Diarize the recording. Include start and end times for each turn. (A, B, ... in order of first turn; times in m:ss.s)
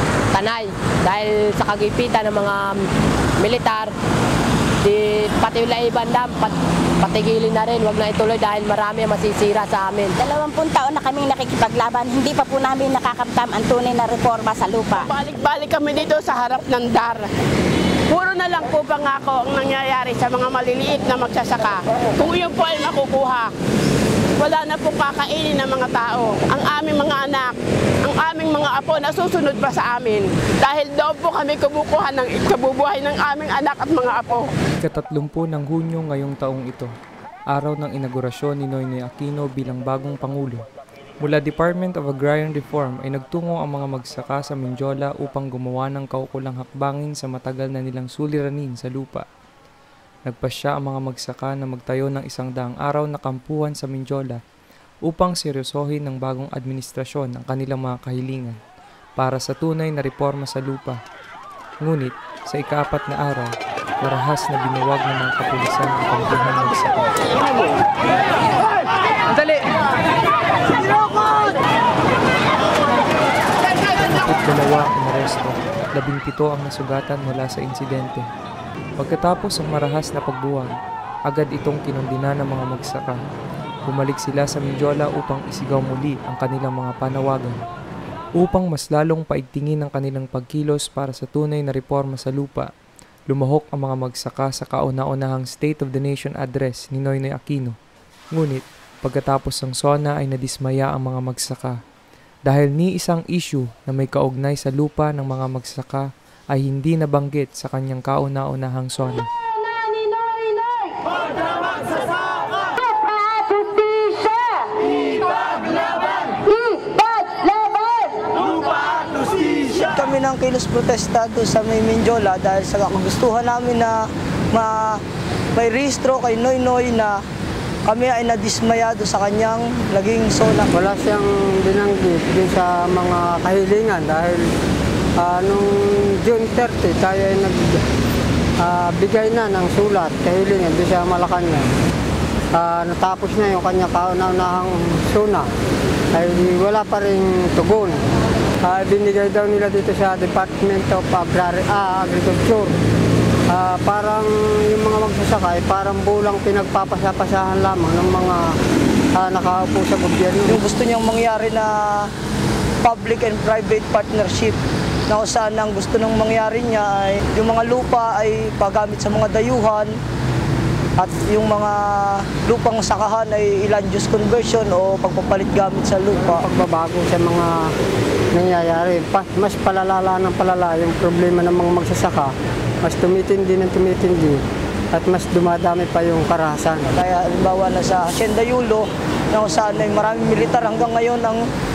0:00.3-0:02.8 A
0:03.4-0:03.9 A
0:04.8-0:10.2 A
0:10.2-0:15.1 B
0:15.1-0:17.3 C
0:18.1-0:23.5 C
0:24.4-0:34.5 C
0:34.8-0:36.9 D
0:37.5-0:40.6 D
0:41.2-0:49.3 D
0:50.2-0:54.4 D
0:55.0-0:58.6 D
0:59.2-1:01.0 D
1:01.8-1:07.1 D
1:14.0-1:18.3 D
1:19.0-1:20.7 D
1:21.3-1:23.2 D
1:23.9-1:27.6 D
1:28.4-1:32.7 D
1:33.3-1:37.8 D
1:38.3-1:41.8 D
1:42.5-1:49.3 D
1:58.8-2:05.0 E
2:05.5-2:07.2 E
2:07.8-2:10.7 E
2:10.7-2:14.5 F
2:15.2-2:17.8 F
2:18.6-2:21.7 F
2:22.5-2:25.5 F
2:26.1-2:28.0 F
2:28.6-2:32.7 F
2:33.5-2:38.5 F
2:39.2-2:40.6 F
2:40.5-2:42.1 E
2:42.8-2:49.9 E
2:51.0-2:56.4 E
2:56.3-2:57.7 F
2:58.3-3:04.4 F
3:04.9-3:06.9 F
3:07.0-3:11.4 E